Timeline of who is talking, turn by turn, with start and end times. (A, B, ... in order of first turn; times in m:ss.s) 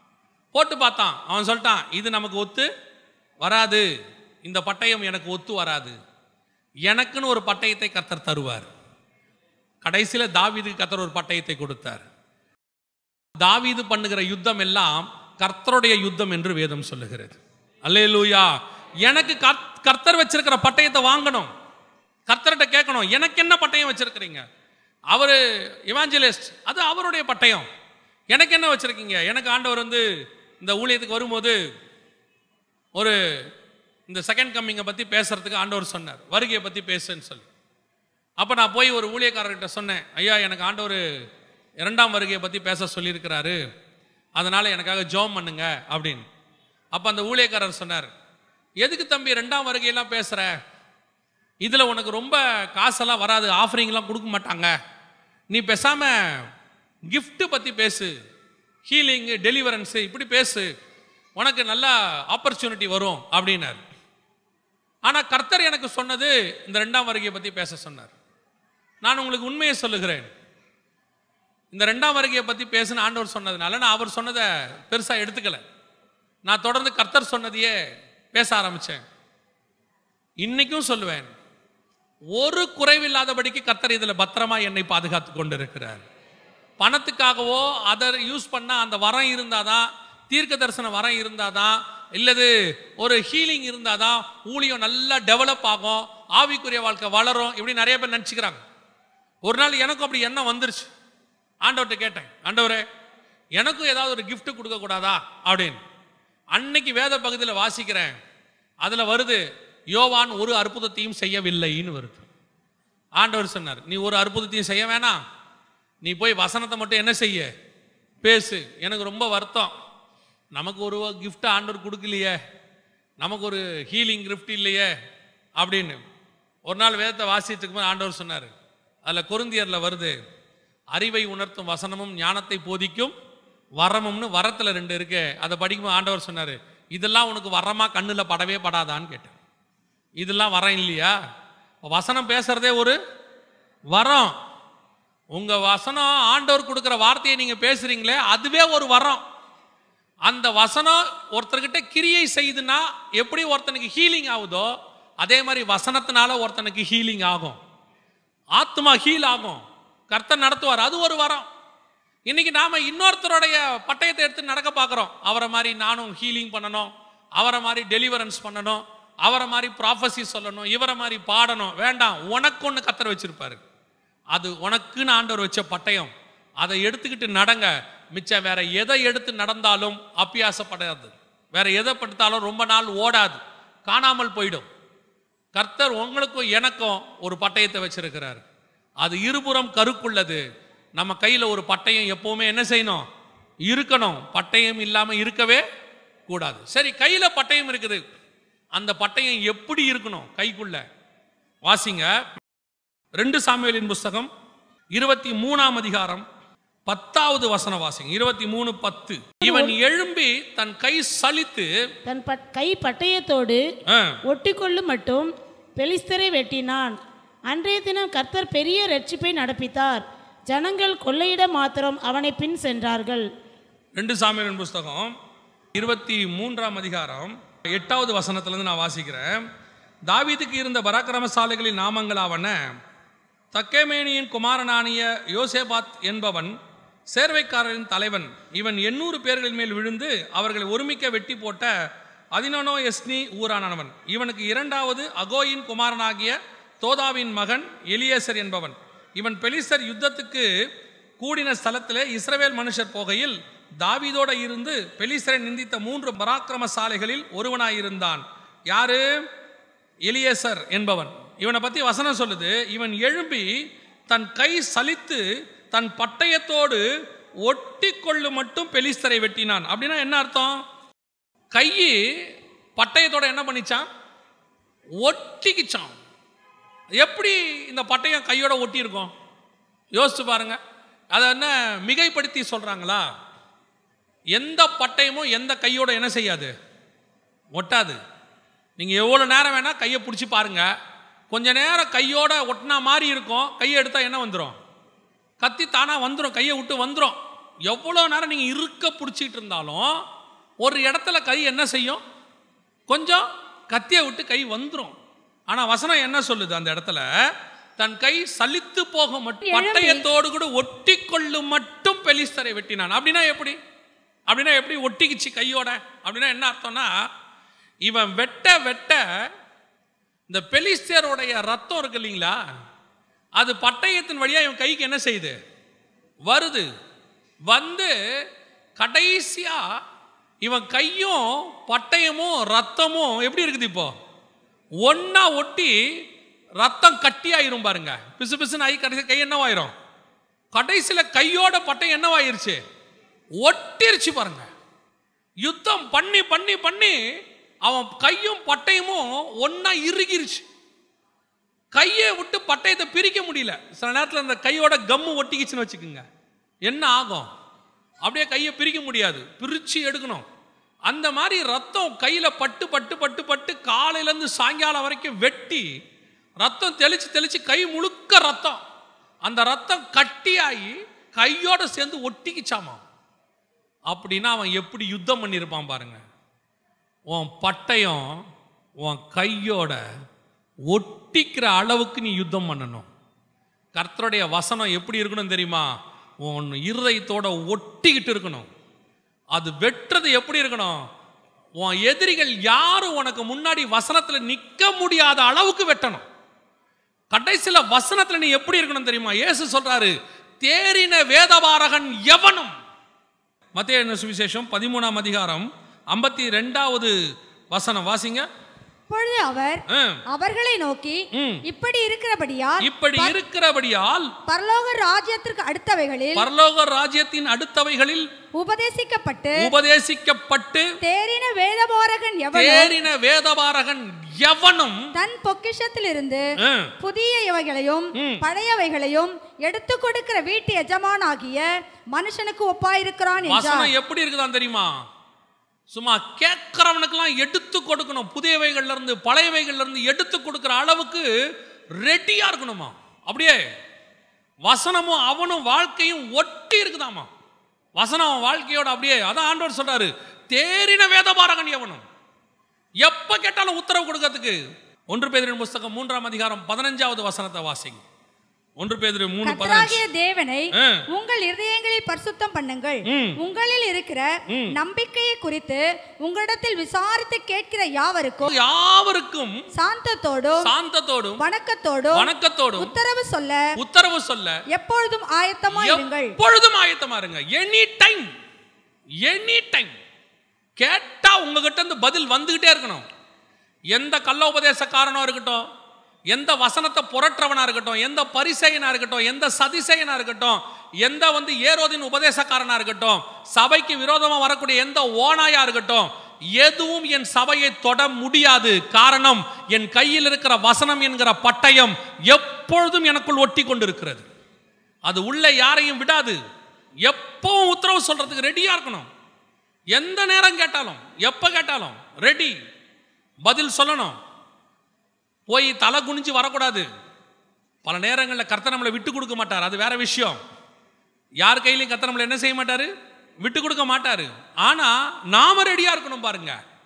0:00.5-0:02.7 A
0:03.4-0:03.9 A
0:04.5-0:06.0 A
0:06.9-0:08.7 A
0:09.8-0:12.1 A
0:13.4-0:18.5 A
0:19.0-0:21.5 A
0:22.3-0:24.4 A
0:25.1-0:27.7 A
0:28.3-0:30.0 A
0:30.6-0:31.6 A
0:34.1-0:37.5 A
0:38.4-0:41.0 A
0:41.8-0:43.6 A
0:44.4-0:46.3 A
0:46.9-0:48.1 A
0:48.8-0:50.6 A
0:51.6-0:54.7 A
0:55.5-0:56.5 A
0:57.1-0:58.1 A
0:58.8-1:00.7 A
1:01.4-1:03.8 A
1:05.1-1:08.1 A
1:09.0-1:10.3 A
1:11.7-1:15.6 A
1:16.4-1:17.8 A
1:18.4-1:19.0 A
1:20.4-1:21.3 A
1:22.4-1:26.0 A
1:26.8-1:38.6 A
1:39.4-1:40.9 A
1:41.6-1:42.8 A
1:43.6-1:45.8 A
1:46.5-1:48.2 A
1:48.8-1:49.4 A
1:49.9-1:52.3 A
1:53.2-1:55.2 A
1:56.0-1:57.5 A
1:58.2-1:59.7 A
2:00.5-2:02.4 A
2:03.2-2:04.9 A
2:05.6-2:06.0 A
2:06.7-2:08.5 A
2:09.1-2:10.2 A
2:10.9-2:13.1 A
2:13.8-2:19.4 A
2:20.2-2:21.2 A
2:21.9-2:23.0 A
2:23.9-2:24.3 A
2:25.3-2:29.2 A
2:30.3-2:34.7 A
2:35.2-2:37.6 A
2:38.6-2:41.5 A
2:42.3-2:53.6 A
2:54.3-3:04.7 A
3:05.6-3:08.4 A
3:09.0-3:10.4 A
3:11.0-3:13.1 A
3:13.7-3:15.6 A
3:16.3-3:18.0 A
3:18.8-3:20.8 A
3:21.7-3:22.1 A
3:23.2-3:24.3 A
3:24.9-3:26.3 A
3:26.9-3:31.7 A
3:29.4-3:29.7 B
3:32.1-3:33.6 B
3:33.9-3:34.2 A
3:34.3-3:37.0 B
3:37.5-3:43.3 B
3:44.0-3:45.1 A
3:45.7-3:49.4 A
3:50.1-3:52.6 A
3:53.5-3:56.6 A
3:57.1-4:01.7 A
4:02.4-4:10.5 A
4:11.2-4:19.0 A
4:20.1-4:23.5 A
4:24.1-4:26.8 A
4:27.4-4:30.6 A
4:31.5-4:32.0 A
4:32.8-4:33.9 A
4:35.0-4:36.0 A
4:37.0-4:39.1 A
4:40.0-4:40.6 A
4:41.1-4:43.1 A
4:44.4-4:46.5 A
4:47.6-4:48.0 A
4:48.8-4:50.7 A
4:51.3-4:54.6 A
4:55.4-5:00.0 A
5:00.6-5:02.0 A
5:02.9-5:04.9 A
5:05.5-5:07.1 A
5:07.8-5:13.6 A
5:09.5-5:10.0 C
5:14.3-5:17.0 A
5:17.8-5:19.1 A
5:20.3-5:22.4 A
5:23.4-5:25.4 A
5:26.3-5:26.7 A
5:27.5-5:27.9 A
5:28.8-5:29.6 A
5:30.4-5:34.0 A
5:34.8-5:35.8 A
5:36.6-5:39.7 A
5:40.5-5:42.6 A
5:43.4-5:44.5 A
5:45.4-5:47.0 A
5:47.6-5:50.5 A
5:51.7-5:56.1 A
5:56.7-5:57.3 A
5:58.0-6:00.3 A
6:00.9-6:05.7 A
6:06.4-6:08.6 A
6:09.2-6:12.8 A
6:13.9-6:16.0 A
6:17.1-6:18.1 A
6:18.8-6:19.8 A
6:20.7-6:22.9 A
6:23.8-6:25.7 A
6:26.2-6:28.5 A
6:29.3-6:30.8 A
6:31.6-6:36.0 A
6:37.1-6:42.5 A
6:43.6-6:47.0 A
6:47.5-6:48.3 A
6:48.9-6:53.2 C
6:49.7-6:50.0 A
6:51.1-6:51.4 A
6:52.6-6:54.1 A
6:54.3-6:56.3 C
6:56.2-6:58.1 A
6:58.4-6:59.5 C
6:59.4-7:00.7 A
7:00.8-7:02.8 C
7:02.3-7:04.9 A
7:05.0-7:06.2 C
7:06.4-7:06.7 A
7:06.8-7:13.7 C
7:08.0-7:08.2 A
7:13.2-7:14.7 A
7:15.7-7:21.1 A
7:21.8-7:23.4 A
7:24.4-7:27.1 A
7:27.8-7:31.8 A
7:32.8-7:34.4 A
7:34.9-7:37.8 A
7:38.6-7:39.8 A
7:39.2-7:48.3 C
7:40.5-7:40.8 A
7:42.9-7:43.2 A
7:44.3-7:44.6 A
7:48.2-7:49.4 A
7:49.6-7:50.5 C
7:50.4-7:51.2 A
7:51.2-7:53.5 C
7:51.9-7:52.7 A
7:53.6-7:54.4 A
7:54.5-7:56.2 C
7:55.5-7:58.1 A
7:59.0-7:59.8 A
8:00.6-8:02.8 A
8:03.7-8:05.4 A
8:06.1-8:24.1 A
8:24.9-8:26.2 A
8:26.8-8:28.9 A
8:29.7-8:32.4 A
8:33.2-8:34.0 A
8:35.3-8:36.7 A
8:37.6-8:40.2 A
8:41.2-8:42.7 A
8:43.2-8:46.4 A